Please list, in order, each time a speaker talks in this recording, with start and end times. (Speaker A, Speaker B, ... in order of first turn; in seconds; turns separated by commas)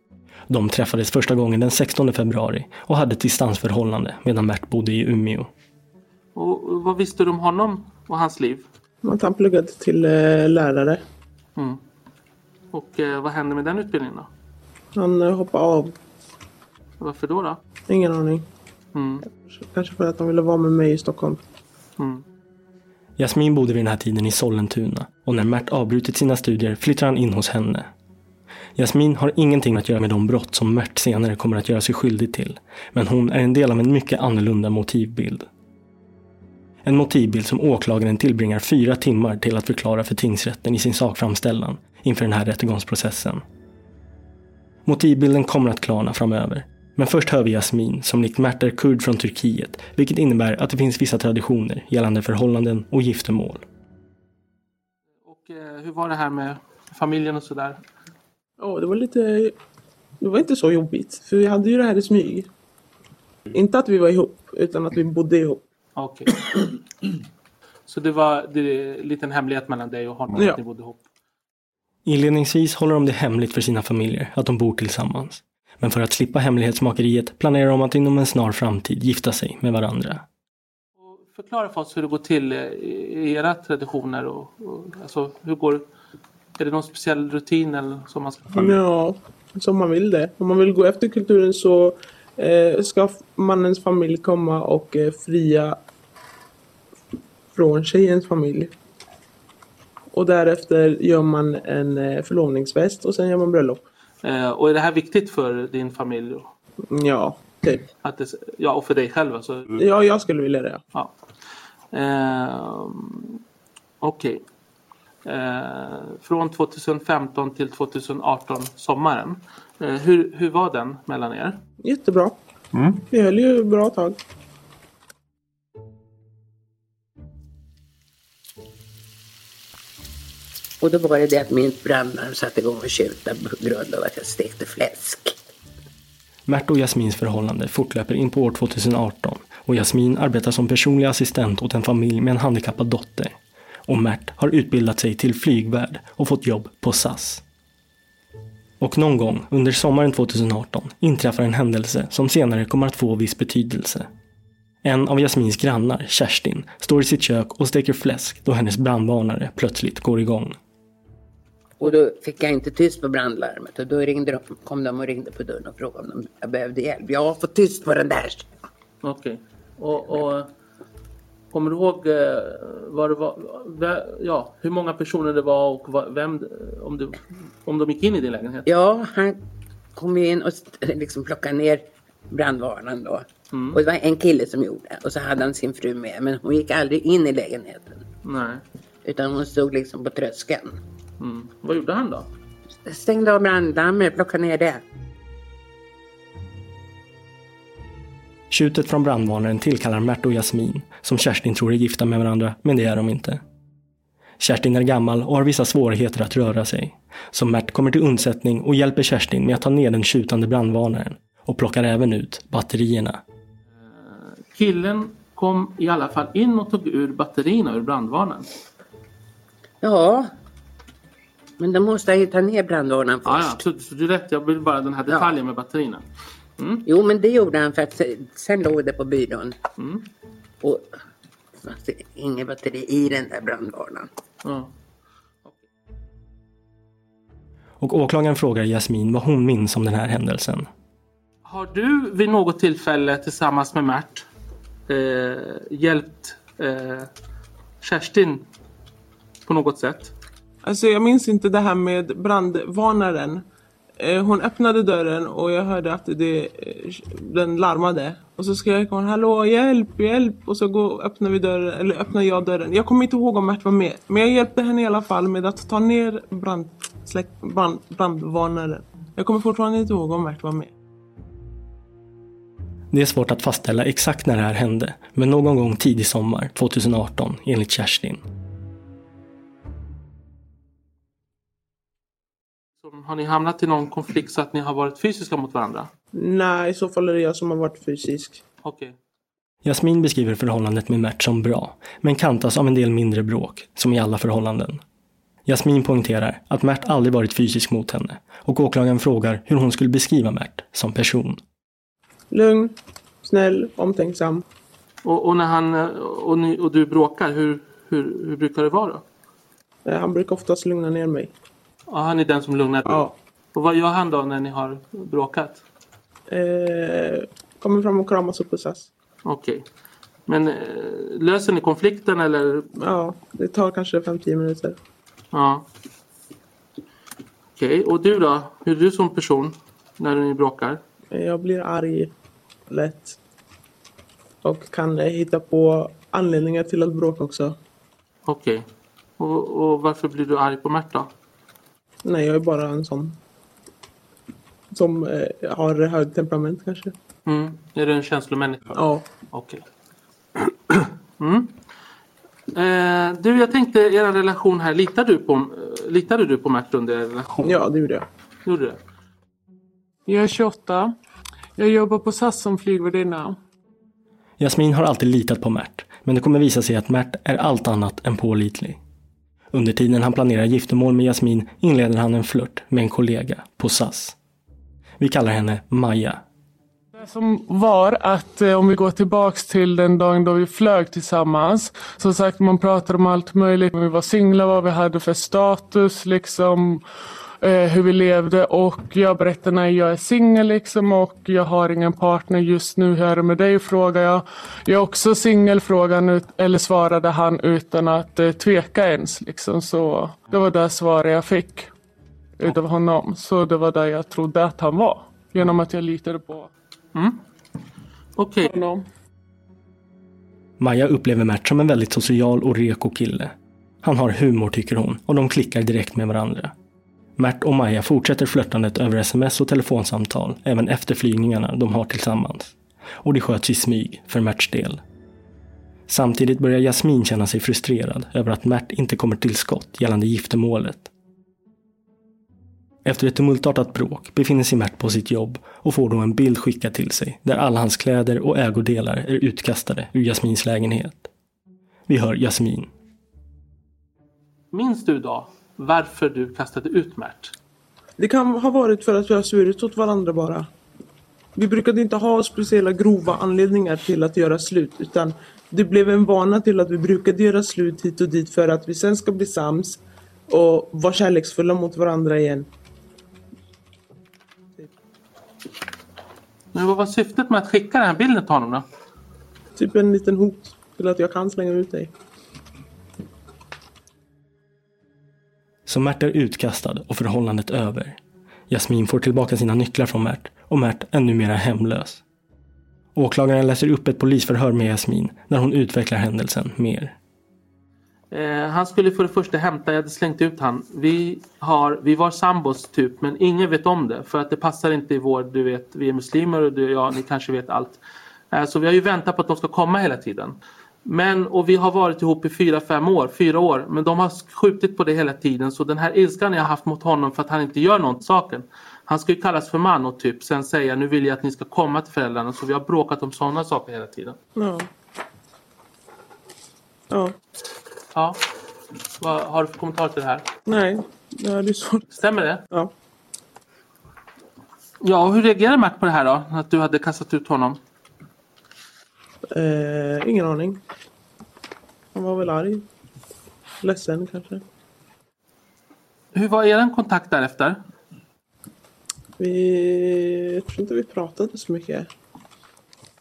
Speaker A: 0.5-5.5, Speaker B: 6.4-8.7, Speaker C: 9.0-11.0, Speaker B: 12.7-14.3, Speaker C: 14.9-15.9, Speaker B: 17.0-17.6, Speaker C: 17.9-18.5, Speaker B: 18.9-19.2, Speaker C: 19.2-21.4, Speaker B: 22.0-22.2, Speaker A: 23.2-27.9, Speaker A: 28.8-35.5, Speaker A: 36.9-43.4, Speaker A: 44.9-53.6, Speaker B: 55.2-57.8, Speaker C: 58.6-59.5, Speaker C: 60.2-62.5, Speaker C: 63.5-65.6, Speaker B: 66.0-66.6, Speaker B: 67.9-71.0, Speaker C: 70.3-70.6, Speaker A: 72.0-80.2, Speaker B: 81.0-85.8, Speaker B: 86.6-88.8, Speaker C: 88.5-95.8, Speaker C: 97.5-98.7, Speaker C: 100.1-103.8, Speaker B: 104.2-106.5, Speaker C: 106.9-107.8, Speaker B: 108.0-109.7, Speaker C: 109.8-110.8, Speaker B: 111.9-113.4, Speaker B: 114.0-114.4, Speaker B: 115.2-121.6, Speaker C: 121.8-122.4, Speaker C: 123.1-124.2, Speaker D: 130.8-135.4, Speaker A: 136.5-143.3, Speaker A: 143.9-147.4, Speaker A: 148.8-154.1, Speaker A: 154.8-160.6, Speaker D: 161.8-168.5, Speaker B: 169.0-170.5, Speaker B: 171.5-178.7, Speaker D: 178.7-179.4, Speaker D: 179.9-188.0, Speaker B: 183.5-183.8, Speaker B: 188.2-188.6, Speaker D: 189.0-190.8, Speaker B: 191.2-192.3, Speaker D: 192.9-194.8, Speaker A: 198.5-203.4, Speaker A: 204.4-213.2, Speaker B: 213.8-218.5, Speaker D: 219.8-220.3, Speaker D: 221.6-223.6, Speaker B: 223.2-226.0, Speaker D: 225.1-225.4, Speaker B: 226.6-226.8, Speaker D: 226.9-229.5, Speaker B: 229.8-230.1, Speaker D: 231.6-234.1, Speaker B: 234.4-234.7, Speaker A: 237.8-240.7, Speaker B: 241.4-244.2, Speaker B: 244.9-247.1, Speaker B: 247.8-248.5, Speaker B: 249.5-250.1, Speaker C: 250.6-253.4, Speaker C: 254.0-270.7, Speaker A: 272.9-278.2, Speaker B: 282.8-285.9, Speaker C: 286.2-288.4, Speaker B: 288.6-288.9, Speaker A: 289.6-294.8, Speaker A: 295.5-301.4, Speaker C: 302.3-304.4, Speaker B: 305.0-309.0, Speaker C: 309.9-311.3, Speaker B: 311.9-315.6, Speaker C: 312.9-313.1, Speaker C: 316.3-318.9, Speaker B: 319.2-319.6, Speaker B: 320.3-322.7, Speaker C: 322.8-324.8, Speaker B: 325.3-325.6, Speaker B: 327.6-330.8, Speaker C: 331.1-332.1, Speaker C: 332.7-333.1, Speaker C: 334.4-337.6, Speaker B: 338.2-338.7, Speaker B: 339.2-341.1, Speaker C: 342.0-343.1, Speaker C: 344.7-346.9, Speaker B: 347.3-349.6, Speaker C: 348.7-349.0, Speaker B: 351.2-351.5, Speaker B: 352.5-357.5, Speaker C: 357.4-358.1, Speaker B: 358.5-358.8, Speaker E: 360.1-360.9, Speaker E: 361.6-363.4, Speaker A: 364.4-368.8, Speaker A: 369.5-374.2, Speaker A: 375.0-376.2, Speaker E: 376.9-386.8, Speaker E: 387.4-401.7, Speaker E: 402.4-406.5, Speaker B: 406.9-407.2, Speaker B: 408.2-408.5, Speaker E: 408.4-408.8, Speaker A: 410.6-416.5, Speaker A: 417.2-424.8, Speaker A: 425.9-430.9, Speaker A: 432.8-441.1, Speaker A: 441.9-442.7, Speaker B: 444.5-447.3, Speaker C: 448.0-450.5, Speaker C: 451.4-462.5, Speaker B: 466.5-468.6, Speaker C: 469.6-471.9, Speaker A: 475.7-478.0, Speaker A: 478.5-482.0, Speaker A: 482.9-486.9, Speaker B: 488.1-497.8, Speaker B: 498.3-514.2, Speaker C: 514.4-514.7, Speaker B: 517.9-518.2, Speaker B: 519.0-520.3, Speaker C: 520.5-521.8, Speaker B: 521.9-522.4, Speaker B: 524.8-527.6, Speaker C: 529.3-530.6, Speaker C: 532.0-532.7, Speaker C: 533.6-534.4, Speaker B: 536.1-537.6, Speaker C: 539.2-541.9